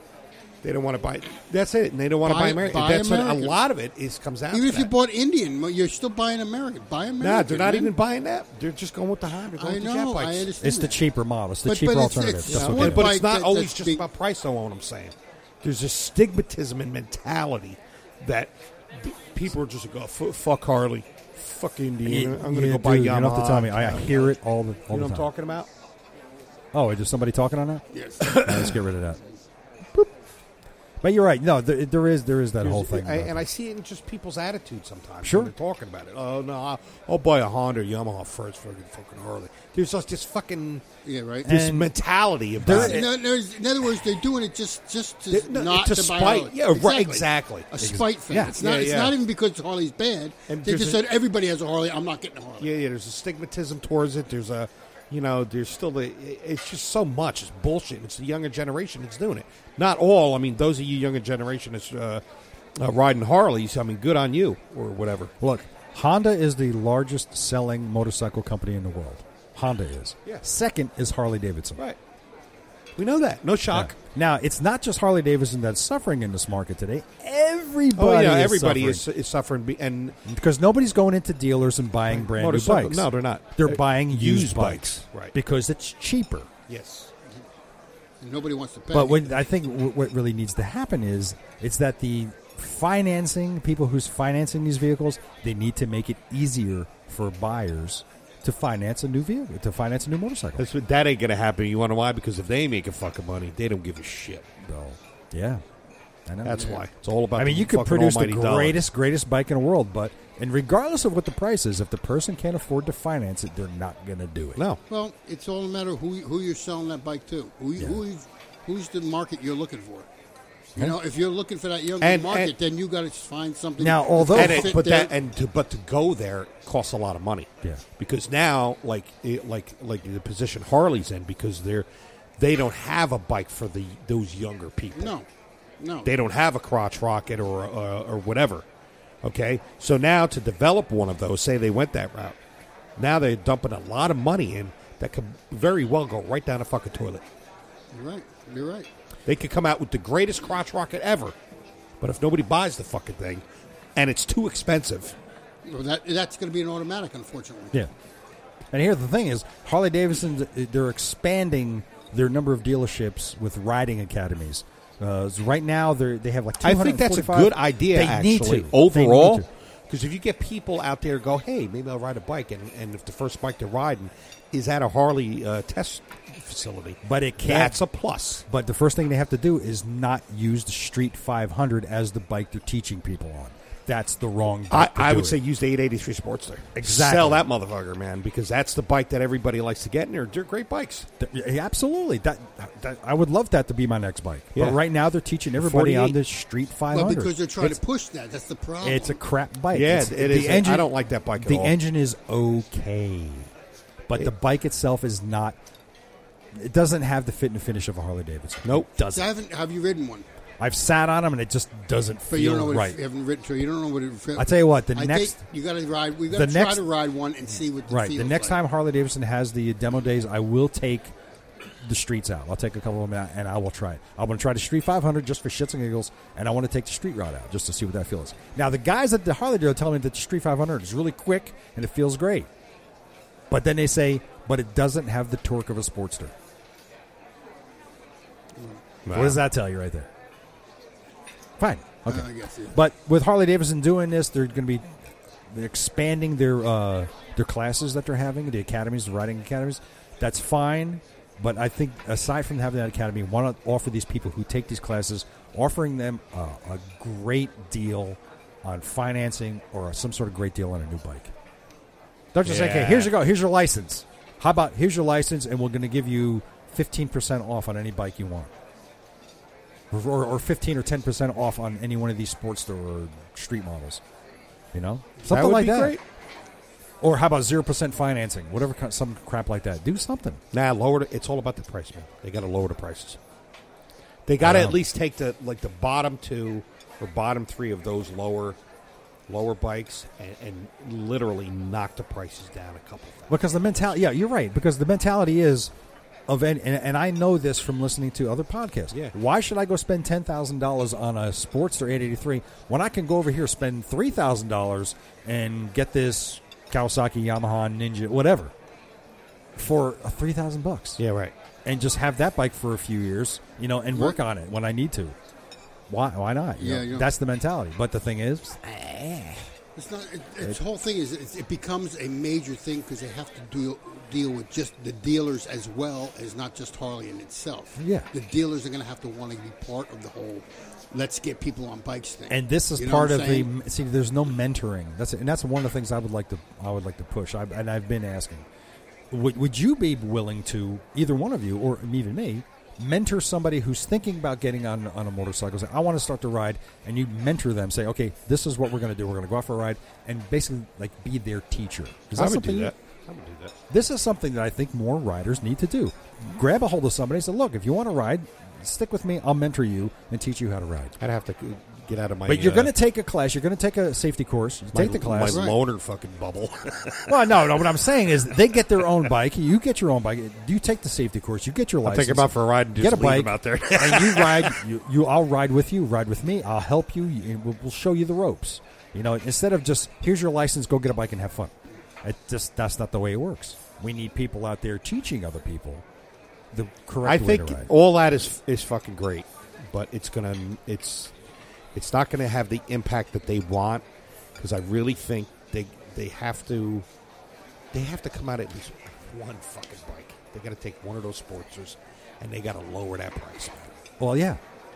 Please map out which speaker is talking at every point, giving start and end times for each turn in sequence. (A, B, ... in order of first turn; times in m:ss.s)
0:00.6-0:04.9 A
0:02.2-0:03.6 B
0:04.5-0:07.9 B
0:07.2-0:10.5 A
0:09.6-0:11.0 B
0:10.6-0:13.2 C
0:11.6-0:14.0 B
0:12.5-0:24.3 A
0:22.0-0:25.3 C
0:24.9-0:25.7 A
0:26.7-0:29.2 C
0:27.9-0:28.4 B
0:28.3-0:28.7 A
0:31.0-0:33.4 C
0:32.6-0:40.8 A
0:35.2-0:35.5 C
0:41.0-0:41.5 B
0:41.4-0:41.9 C
0:41.4-0:43.1 A
0:42.6-0:43.2 C
0:42.7-0:52.7 B
0:45.3-0:47.7 A
0:47.8-0:48.6 C
0:48.6-0:49.2 A
0:50.5-0:51.0 A
0:52.6-1:02.2 A
1:02.8-1:05.3 A
1:05.4-1:11.8 C
1:13.0-1:14.0 A
1:13.7-1:19.0 C
1:18.0-1:20.2 A
1:20.2-1:26.5 C
1:22.1-1:25.4 A
1:26.7-1:27.1 A
1:28.2-1:29.4 B
1:28.9-1:40.7 C
1:40.6-1:44.5 A
1:44.6-1:45.6 C
1:46.3-1:46.8 C
1:46.4-1:48.8 A
1:47.4-1:54.6 C
1:54.9-2:00.1 B
2:00.8-2:05.1 B
2:02.0-2:02.5 A
2:03.8-2:04.8 C
2:04.3-2:11.9 A
2:12.4-2:15.1 A
2:15.0-2:15.3 B
2:15.8-2:16.1 B
2:16.0-2:18.6 A
2:19.2-2:22.4 A
2:23.0-2:27.2 A
2:27.9-2:28.9 B
2:29.3-2:31.4 A
2:32.0-2:33.4 A
2:34.0-2:35.2 A
2:35.6-2:37.8 B
2:38.7-2:49.5 C
2:46.6-2:58.4 A
2:57.0-2:57.8 C
2:58.5-3:05.4 C
3:04.7-3:11.1 A
3:06.8-3:07.4 C
3:11.2-3:17.8 C
3:14.6-3:14.8 A
3:15.6-3:16.2 A
3:16.9-3:19.2 B
3:18.8-3:23.5 C
3:19.7-3:21.8 A
3:24.1-3:25.6 C
3:26.5-3:29.3 C
3:29.1-3:30.3 B
3:30.6-3:33.0 C
3:32.3-3:38.6 B
3:34.4-3:35.4 C
3:36.3-3:36.8 C
3:37.9-3:41.1 C
3:41.8-3:52.5 C
3:53.5-3:56.3 C
3:59.1-3:59.4 A
3:59.1-4:00.1 C
4:01.6-4:05.0 C
4:02.1-4:02.8 B
4:05.5-4:21.3 C
4:22.3-4:28.5 C
4:22.4-4:23.1 A
4:29.9-4:34.0 C
4:34.7-4:36.0 C
4:35.3-4:36.0 A
4:37.0-4:40.4 C
4:40.5-4:43.2 A
4:44.3-4:48.6 A
4:44.4-4:44.8 C
4:49.3-4:53.4 A
4:53.3-4:55.7 C
4:56.3-5:08.5 C
5:09.6-5:11.0 C
5:11.0-5:11.3 A
5:11.6-5:15.2 C
5:13.9-5:14.2 B
5:15.9-5:19.5 C
5:16.6-5:17.1 B
5:19.8-5:33.5 B
5:27.8-5:28.1 C
5:32.3-5:38.5 C
5:39.1-5:52.7 C
5:52.2-5:53.6 A
5:53.7-6:01.0 C
6:01.0-6:02.7 A
6:02.3-6:05.4 C
6:04.7-6:07.1 A
6:05.3-6:05.6 B
6:07.1-6:25.8 C
6:11.8-6:14.6 A
6:26.5-6:27.7 C
6:27.0-6:31.1 A
6:31.8-6:33.8 A
6:34.4-6:36.8 A
6:37.7-6:43.8 A
6:44.0-6:44.4 C